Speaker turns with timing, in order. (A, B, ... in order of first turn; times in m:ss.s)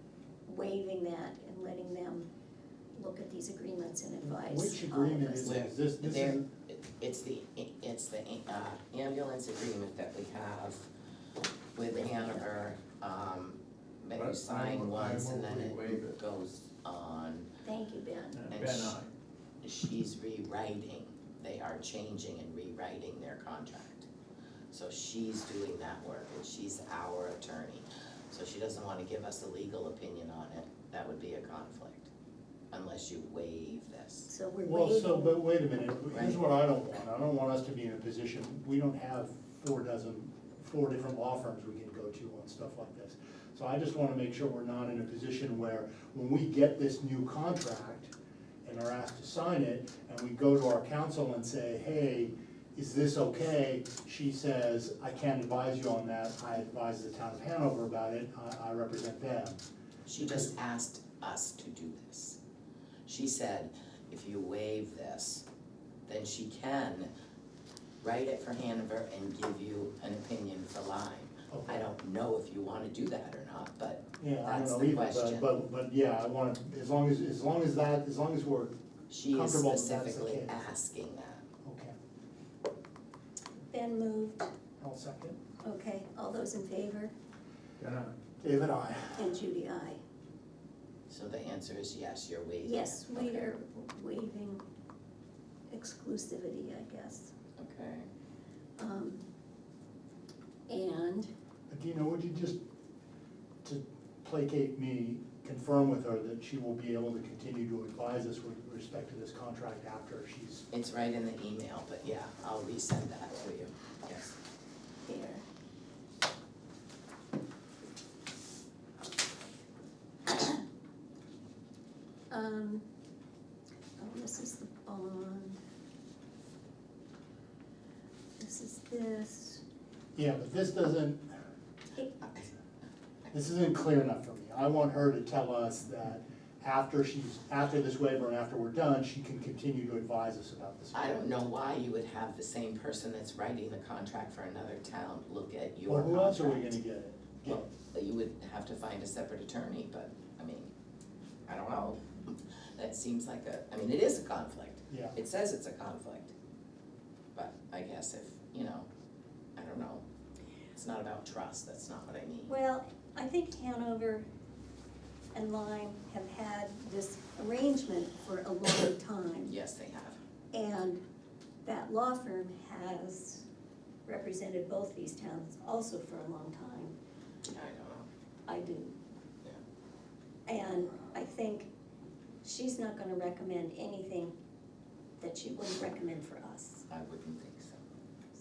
0:00.4-0:02.3 A
0:02.9-0:05.7 A
0:04.2-0:06.4 B
0:05.4-0:10.8 C
0:11.7-0:17.5 C
0:14.1-0:16.2 D
0:17.6-0:18.4 A
0:18.3-0:19.1 D
0:18.5-0:19.0 C
0:19.6-0:24.1 C
0:24.7-0:32.1 C
0:32.7-0:34.3 C
0:34.3-0:35.4 A
0:34.6-0:48.1 B
0:36.1-0:36.4 C
0:48.6-0:59.6 B
1:00.0-1:02.4 C
1:00.2-1:00.5 B
1:03.1-1:05.4 C
1:06.1-1:07.1 C
1:08.0-1:15.5 C
1:11.5-1:11.9 B
1:14.2-1:18.7 B
1:19.1-1:21.4 C
1:19.3-1:20.7 B
1:21.6-1:21.9 B
1:23.7-1:24.5 A
1:24.8-1:25.4 B
1:25.6-1:27.1 A
1:27.8-1:28.1 D
1:28.4-1:29.3 B
1:29.2-1:30.0 A
1:31.1-1:33.5 C
1:32.6-1:34.6 A
1:35.7-1:37.3 A
1:37.6-1:38.1 C
1:38.8-1:39.2 A
1:40.7-1:41.3 A
1:41.7-1:42.6 B
1:43.6-1:50.6 B
1:50.7-1:54.4 C
1:55.0-1:55.4 A
2:02.3-2:02.8 A
2:04.0-2:05.6 A
2:08.4-2:09.6 A
2:10.1-2:11.4 B
2:13.3-2:21.3 B
2:20.9-2:26.8 C
2:25.9-2:27.6 B
2:27.4-2:30.7 C
2:31.5-2:36.3 C
2:34.9-2:35.2 B
2:37.3-2:38.9 C
2:39.6-2:40.0 C
2:40.7-2:42.6 C
2:42.5-2:44.2 A
2:45.3-2:49.6 A
2:49.5-2:50.2 C
2:50.5-2:51.0 A
2:51.6-2:53.4 A
2:54.0-2:56.9 A
2:57.4-2:58.1 C
2:58.5-2:59.0 A
3:00.4-3:01.7 A
3:02.4-3:04.3 A
3:05.2-3:06.8 A
3:06.9-3:07.8 C